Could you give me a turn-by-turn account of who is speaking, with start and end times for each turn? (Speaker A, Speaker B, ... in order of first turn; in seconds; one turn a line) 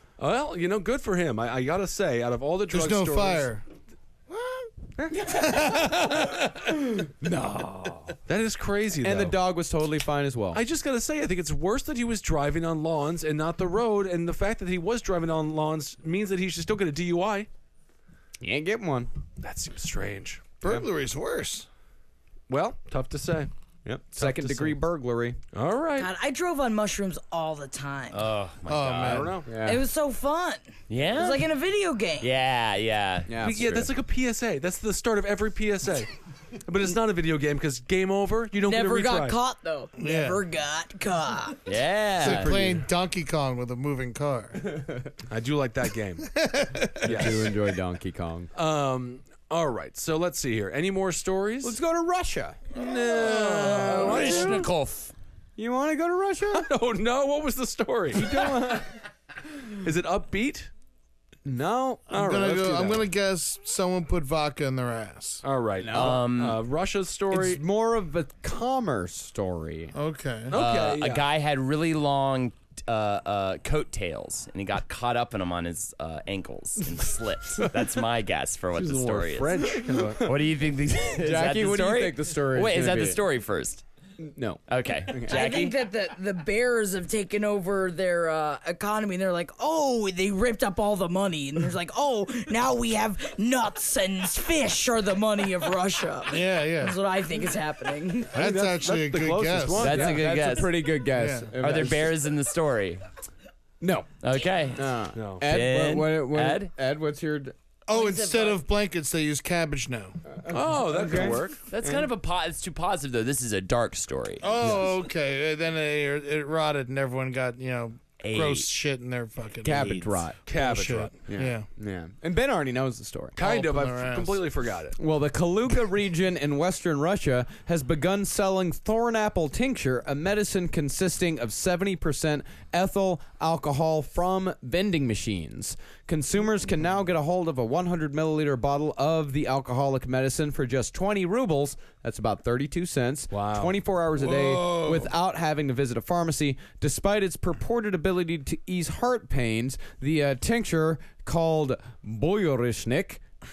Speaker A: 0.2-3.5
Speaker B: 2.7-3.6
Speaker B: 4.3-6.9
Speaker C: 5.0-5.4
Speaker C: 7.2-8.2
Speaker A: 8.3-9.4
Speaker C: 9.0-10.6
Speaker A: 10.5-17.5
Speaker C: 18.4-19.1
Speaker A: 19.4-20.4
Speaker B: 20.6-21.7
Speaker A: 22.5-23.5
Speaker C: 23.9-25.4
Speaker A: 24.1-24.8
Speaker A: 25.5-26.1
Speaker D: 26.0-28.3
Speaker E: 28.1-29.4
Speaker B: 28.7-29.4
Speaker A: 29.0-29.6
Speaker C: 29.5-29.8
Speaker D: 29.5-32.3
Speaker E: 30.9-31.5
Speaker E: 32.2-33.3
Speaker C: 33.3-33.9
Speaker A: 33.4-36.1
Speaker A: 36.6-39.4
Speaker D: 38.6-41.6
Speaker B: 40.0-40.4
Speaker E: 41.7-42.5
Speaker B: 42.2-44.6
Speaker A: 42.3-42.7
Speaker A: 45.3-46.3
Speaker B: 46.3-47.4
Speaker C: 47.0-48.5
Speaker A: 47.0-47.5
Speaker A: 48.5-51.8
Speaker C: 51.6-52.7
Speaker A: 52.7-54.7
Speaker B: 53.1-54.4
Speaker C: 53.7-54.7
Speaker E: 53.8-55.1
Speaker C: 55.6-56.7
Speaker A: 56.5-58.5
Speaker C: 58.1-58.9
Speaker A: 59.8-60.7
Speaker C: 61.5-62.4
Speaker B: 62.1-65.4
Speaker A: 62.1-63.0
Speaker A: 65.4-67.6
Speaker C: 65.8-66.2
Speaker E: 65.9-66.6
Speaker C: 67.3-69.9
Speaker B: 69.9-70.5
Speaker A: 70.5-71.2
Speaker E: 70.5-83.8
Speaker A: 78.8-80.3
Speaker C: 81.1-83.2
Speaker C: 84.2-85.4
Speaker E: 84.7-85.8
Speaker D: 85.3-98.3
Speaker B: 96.3-97.0
Speaker B: 98.3-100.0
Speaker A: 98.3-100.2
Speaker E: 99.8-100.8
Speaker C: 99.8-102.2
Speaker B: 101.2-101.5
Speaker E: 101.6-103.0
Speaker C: 103.8-104.1
Speaker E: 104.2-104.8
Speaker C: 104.7-107.5
Speaker A: 105.2-105.5
Speaker E: 105.4-106.7
Speaker B: 107.9-110.2
Speaker D: 107.9-108.6
Speaker C: 110.4-112.1
Speaker A: 110.5-111.7
Speaker E: 111.7-114.5
Speaker B: 114.4-121.7
Speaker E: 118.2-118.7
Speaker C: 119.6-120.4
Speaker E: 119.8-120.1
Speaker A: 120.5-121.1
Speaker C: 121.3-123.4
Speaker A: 123.4-125.0
Speaker B: 123.4-124.4
Speaker C: 125.0-153.2
Speaker A: 143.3-145.1